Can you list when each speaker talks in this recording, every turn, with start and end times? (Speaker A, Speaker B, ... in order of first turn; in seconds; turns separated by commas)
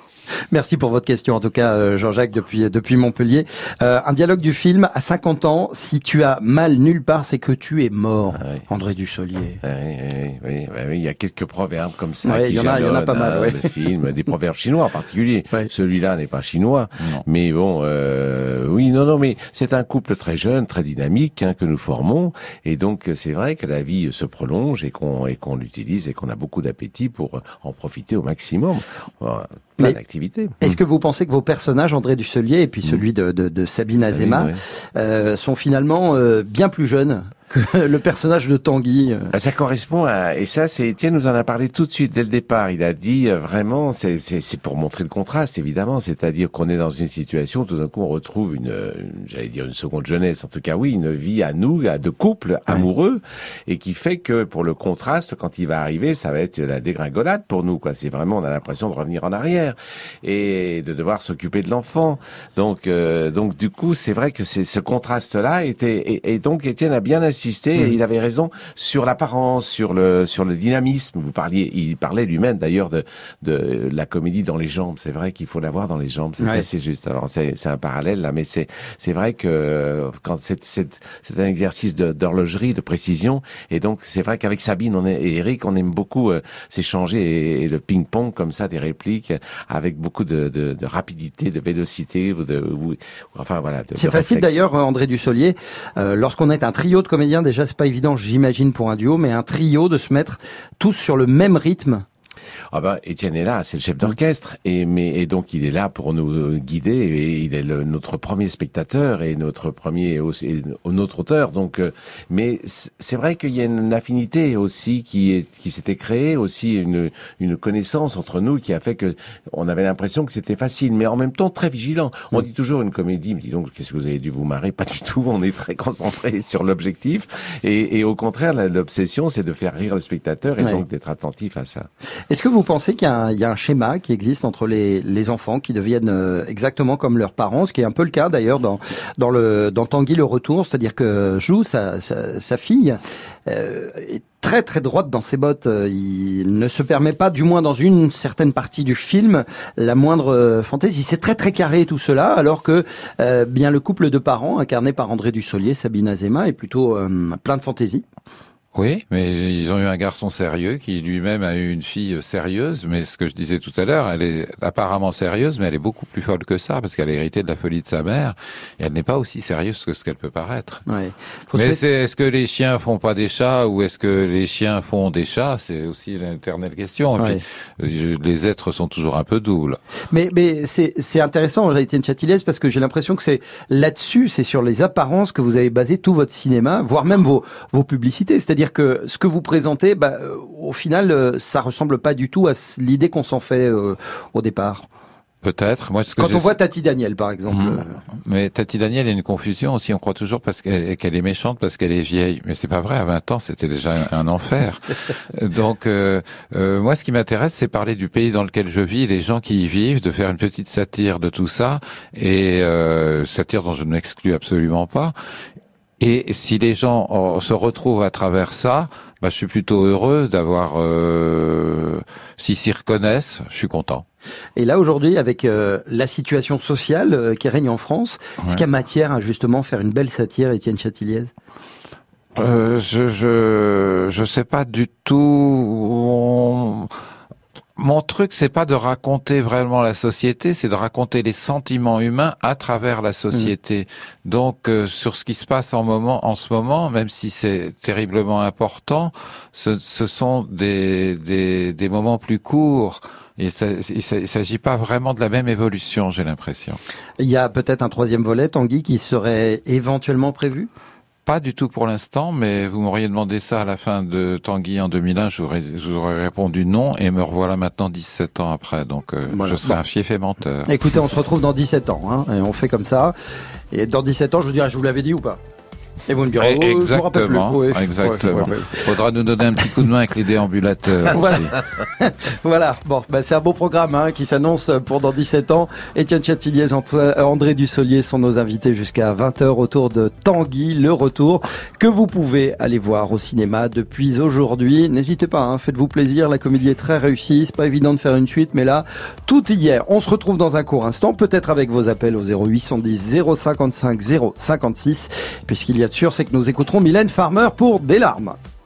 Speaker A: 0.5-9.6, Speaker B: 9.6-30.7, Speaker A: 12.2-13.7, Speaker A: 30.6-39.3, Speaker B: 34.0-34.6, Speaker B: 39.3-94.6, Speaker A: 94.0-102.0, Speaker B: 102.7-131.9, Speaker A: 132.3-158.0, Speaker C: 158.7-170.8, Speaker A: 170.9-171.8, Speaker C: 171.5-179.8, Speaker A: 180.1-194.8, Speaker C: 195.4-196.5, Speaker A: 196.2-198.0, Speaker C: 197.5-215.1, Speaker C: 216.0-224.0, Speaker A: 224.6-231.3, Speaker C: 232.3-236.9, Speaker C: 237.8-256.8, Speaker A: 257.2-260.7, Speaker C: 261.2-270.7, Speaker A: 269.3-269.8, Speaker A: 270.7-273.1, Speaker A: 273.7-275.4, Speaker A: 276.1-278.9, Speaker C: 276.4-281.6, Speaker A: 281.1-308.4